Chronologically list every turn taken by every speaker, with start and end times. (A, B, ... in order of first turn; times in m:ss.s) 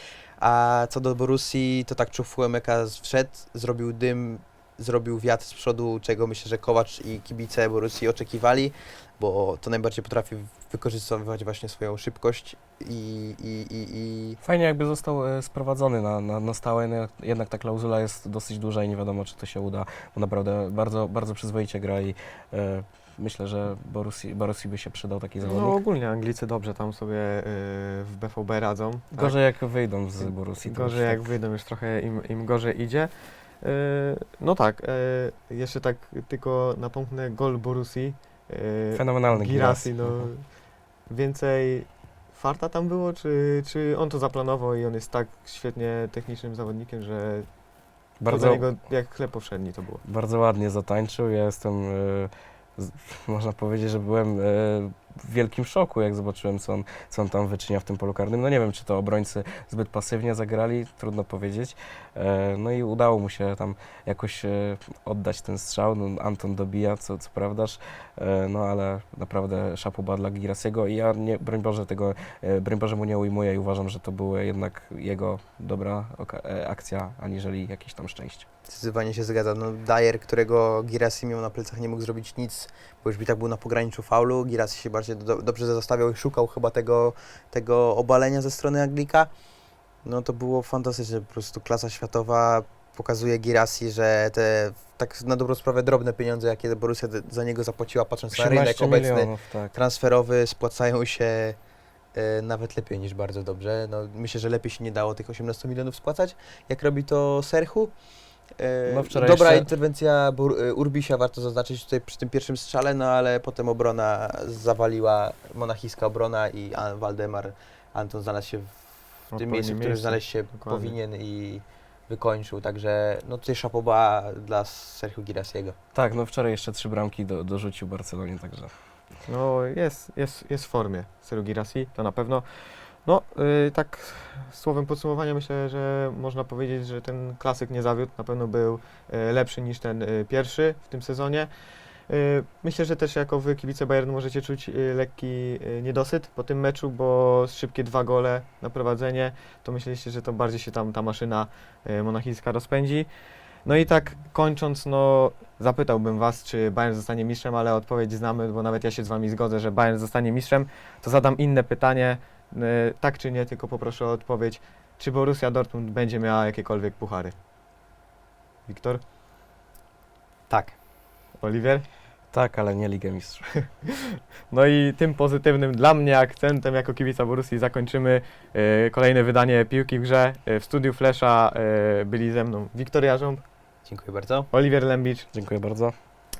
0:00.4-0:14.4 A
0:14.4-0:25.8 B
0:25.4-0:29.4 C
0:29.1-0:31.3 B
0:30.2-0:33.1 C
0:33.6-0:40.4 C
0:38.9-0:40.3 B
0:41.1-0:47.5 C
0:48.2-0:48.6 B
0:48.3-0:50.0 C
0:50.1-1:18.4 B
1:18.6-1:29.3 A
1:30.0-1:41.6 A
1:38.3-1:39.7 B
1:42.1-1:47.9 A
1:48.6-1:58.8 A
1:48.9-1:49.7 B
1:59.3-2:00.9 C
1:59.3-2:05.8 A
2:05.9-2:08.7 B
2:09.3-2:12.4 C
2:13.0-2:21.5 C
2:22.1-2:33.1 C
2:33.6-2:47.4 C
2:48.6-2:49.0 C
2:50.5-2:50.8 A
2:51.4-2:51.8 C
2:52.3-2:53.5 B
2:53.8-3:03.4 C
3:03.9-3:04.5 A
3:04.5-3:05.3 C
3:05.3-3:05.9 B